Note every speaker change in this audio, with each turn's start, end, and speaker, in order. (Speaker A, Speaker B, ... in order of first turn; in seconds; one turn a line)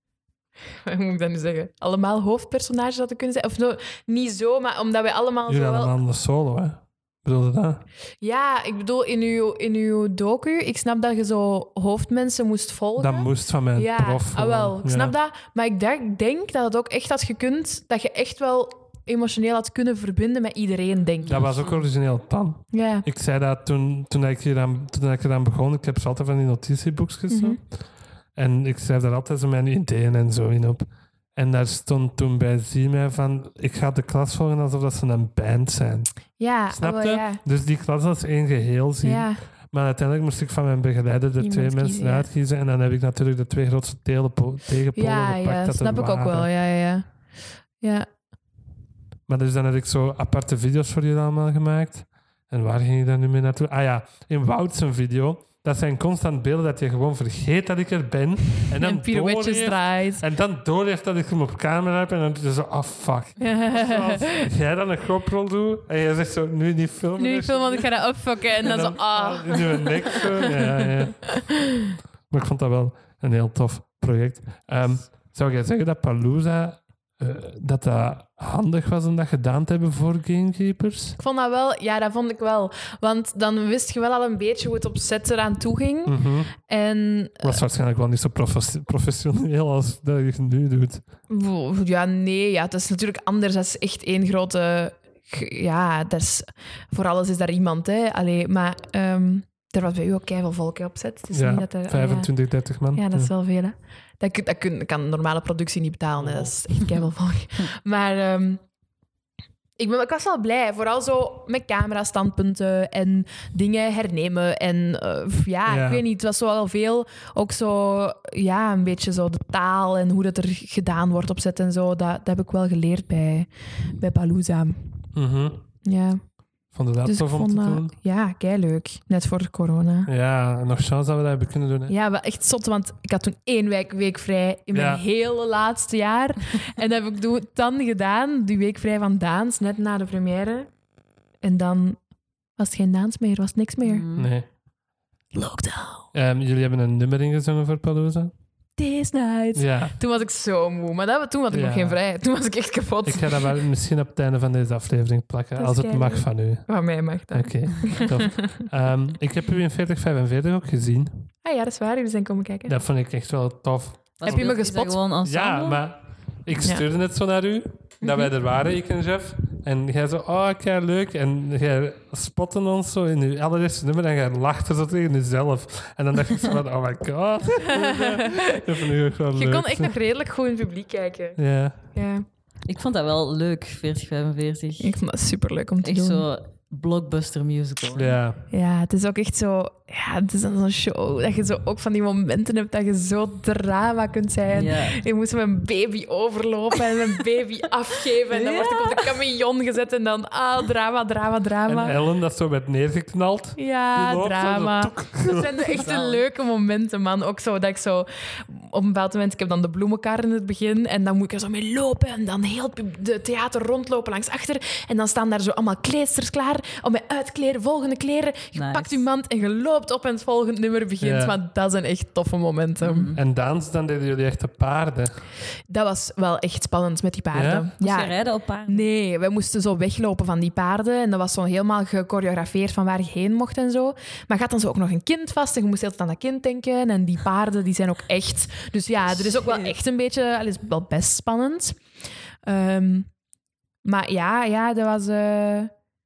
Speaker A: 0.8-6.0
Speaker B: 5.5-7.8
Speaker A: 8.2-21.4
Speaker B: 13.0-15.1
Speaker C: 21.2-21.9
Speaker B: 21.3-27.6
Speaker A: 22.7-23.1
Speaker A: 27.3-27.6
Speaker B: 28.3-36.1
Speaker A: 36.4-37.4
Speaker B: 36.7-46.5
Speaker A: 39.0-39.4
Speaker A: 41.4-42.3
Speaker A: 45.0-47.1
Speaker A: 47.8-48.1
Speaker B: 49.3-68.0
Speaker A: 58.8-60.2
Speaker A: 63.4-64.5
Speaker A: 67.2-71.0
Speaker B: 68.5-71.3
Speaker B: 72.3-81.2
Speaker A: 81.2-87.6
Speaker B: 86.0-86.5
Speaker B: 87.4-91.0
Speaker A: 91.3-102.3
Speaker B: 101.3-103.3
Speaker A: 102.9-108.6
Speaker B: 106.2-106.5
Speaker A: 109.8-124.9
Speaker B: 115.7-116.0
Speaker B: 125.1-125.6
Speaker A: 125.8-126.2
Speaker B: 126.7-127.9
Speaker A: 127.0-130.1
Speaker B: 130.1-131.9
Speaker A: 131.9-140.7
Speaker B: 134.7-135.0
Speaker A: 141.4-142.0
Speaker A: 142.6-144.0
Speaker C: 143.8-144.3
Speaker B: 144.1-144.5
Speaker A: 145.3-146.1
Speaker B: 146.1-148.3
Speaker A: 148.8-153.5
Speaker B: 149.5-150.0
Speaker B: 151.5-152.0
Speaker B: 153.1-156.8
Speaker A: 155.6-158.7
Speaker B: 157.3-161.3
Speaker A: 161.4-162.7
Speaker B: 162.7-164.5
Speaker C: 164.2-165.8
Speaker A: 164.2-165.0
Speaker B: 165.2-179.9
Speaker A: 168.0-168.3
Speaker A: 177.6-178.6
Speaker A: 179.4-181.4
Speaker B: 181.4-181.8
Speaker A: 181.9-182.2
Speaker C: 182.7-184.9
Speaker A: 184.8-186.2
Speaker C: 185.8-188.2
Speaker B: 187.9-188.4
Speaker A: 188.5-202.0
Speaker C: 194.5-195.0
Speaker C: 198.3-199.1
Speaker B: 201.7-205.9
Speaker A: 203.6-223.1
Speaker C: 205.7-206.2
Speaker C: 218.5-219.0
Speaker B: 221.0-221.4
Speaker C: 222.8-223.2
Speaker B: 223.1-225.2
Speaker A: 225.7-241.8
Speaker B: 227.3-227.7
Speaker C: 227.8-228.9
Speaker C: 239.1-239.8
Speaker A: 242.4-243.1
Speaker A: 243.8-245.7